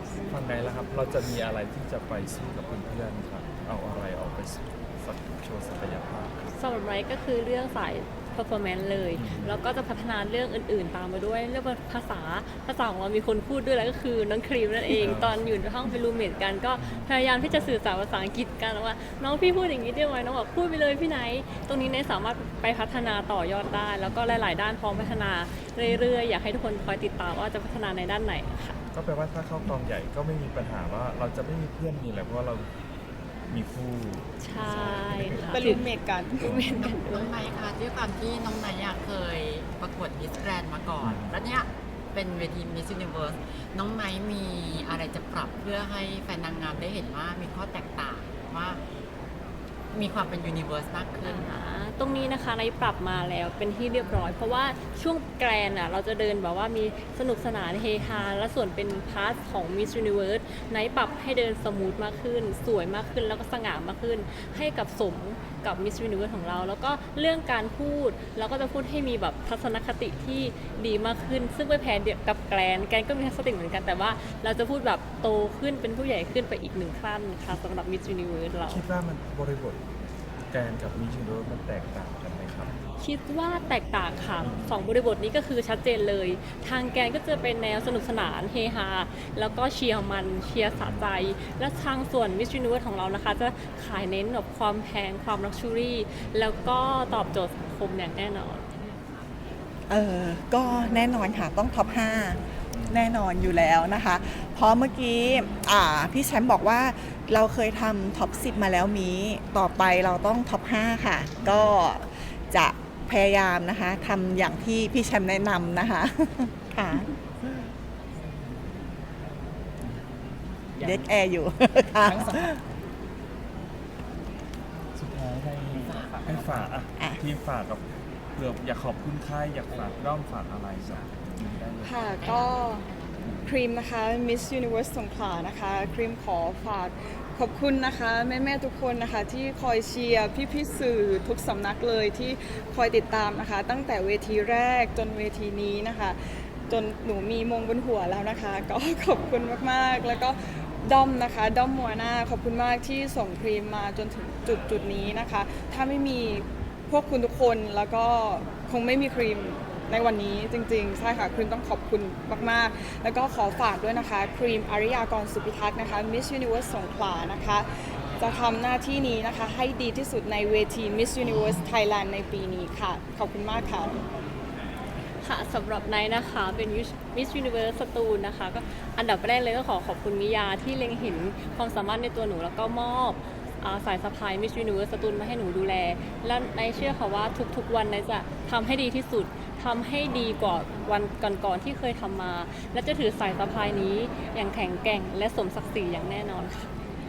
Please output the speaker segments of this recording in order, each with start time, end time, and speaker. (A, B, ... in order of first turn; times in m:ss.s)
0:00.2-0:06.4 A
0:06.5-0:28.8 B
0:09.2-0:09.6 A
0:15.0-0:15.6 A
0:16.8-0:17.1 A
0:28.9-0:32.7 A
0:33.5-0:35.9 A
0:34.4-0:35.8 B
0:35.5-0:36.6 C
0:36.4-0:36.9 A
0:36.4-0:37.4 B
0:36.7-0:48.8 D
0:41.0-0:41.4 A
0:49.9-0:51.6 D
0:51.2-1:18.8 B
1:18.7-1:19.8 A
1:20.5-1:22.7 A
1:23.0-1:38.6 B
1:24.4-1:24.8 A
1:30.8-1:31.0 A
1:39.9-1:57.1 E
1:42.7-1:43.1 A
1:51.4-1:51.8 A
2:00.8-2:02.6 E
2:02.1-2:02.5 D
2:05.0-2:12.1 A
2:05.7-2:06.7 D
2:11.4-2:13.2 D
2:11.8-2:12.9 C
2:13.2-2:13.5 A
2:13.4-2:54.0 C
2:55.2-3:16.7 B